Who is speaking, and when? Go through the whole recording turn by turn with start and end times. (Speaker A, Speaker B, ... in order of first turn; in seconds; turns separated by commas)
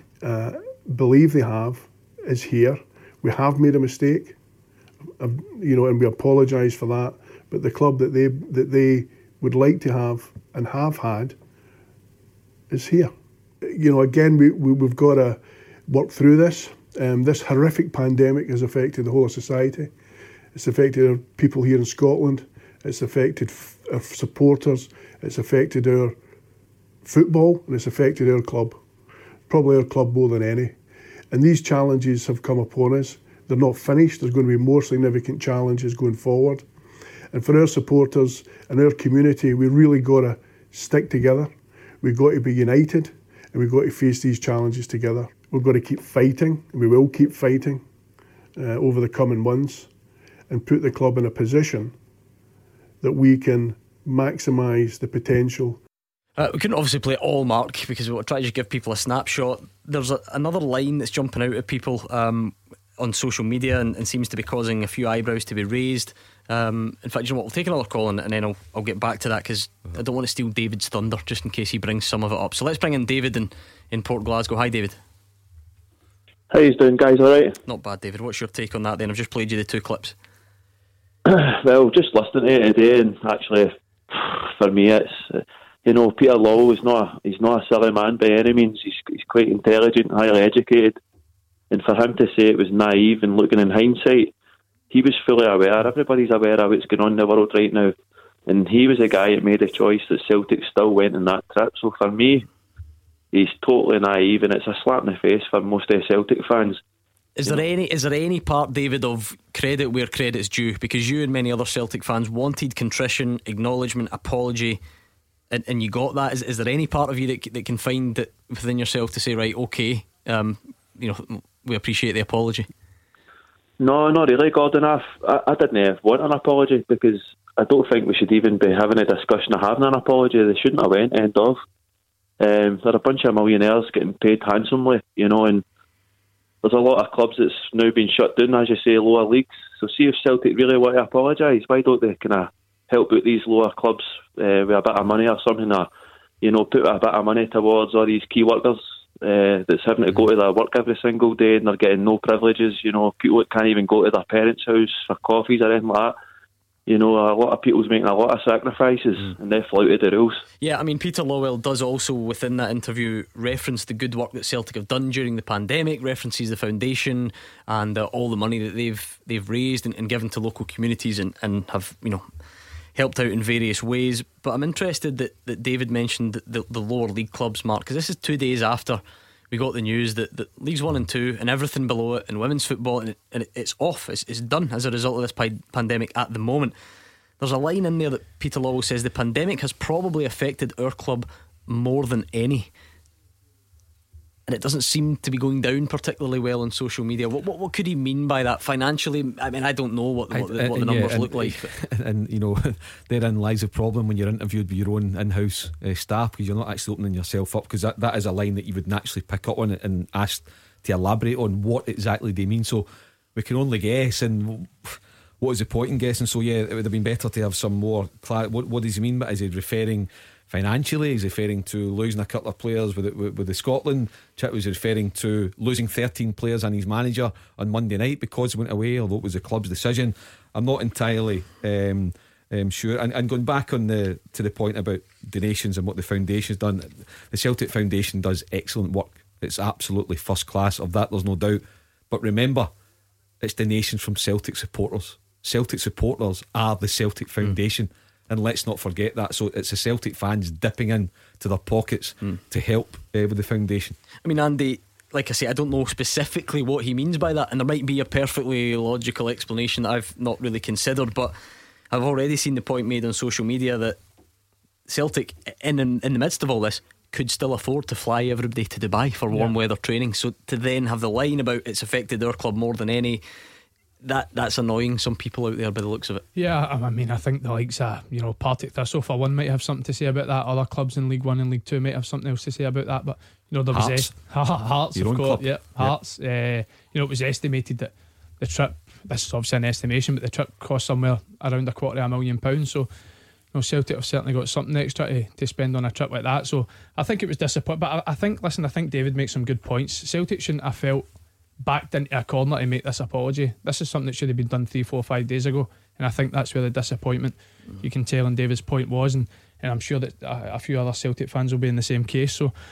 Speaker A: 0.2-4.4, Speaker A: 5.2-11.4, Speaker A: 12.7-13.1, Speaker A: 13.6-19.9, Speaker A: 20.5-26.2, Speaker A: 27.0-28.8, Speaker A: 29.5-30.8, Speaker A: 31.3-36.7, Speaker A: 37.3-41.5, Speaker A: 42.0-47.8, Speaker A: 48.6-49.9, Speaker A: 50.5-51.9, Speaker A: 53.0-55.8, Speaker B: 56.4-75.0, Speaker C: 76.5-77.5, Speaker B: 77.7-80.2, Speaker C: 81.3-91.0, Speaker C: 91.7-94.3, Speaker C: 94.9-97.9, Speaker C: 98.5-102.5, Speaker C: 103.3-106.8, Speaker B: 107.4-114.8, Speaker B: 115.5-122.7, Speaker C: 123.8-131.6, Speaker C: 132.4-135.6, Speaker C: 136.6-145.9, Speaker C: 146.4-156.2, Speaker C: 156.9-160.4, Speaker B: 160.6-172.2, Speaker B: 172.9-186.7, Speaker B: 187.4-192.7, Speaker B: 194.5-201.7, Speaker D: 200.3-242.7, Speaker D: 243.4-254.0, Speaker B: 254.2-261.4, Speaker B: 261.9-264.0, Speaker B: 264.9-273.2, Speaker B: 274.0-276.2, Speaker E: 276.4-292.9, Speaker D: 283.7-284.2, Speaker D: 284.9-286.0, Speaker E: 293.5-301.1, Speaker E: 301.6-312.5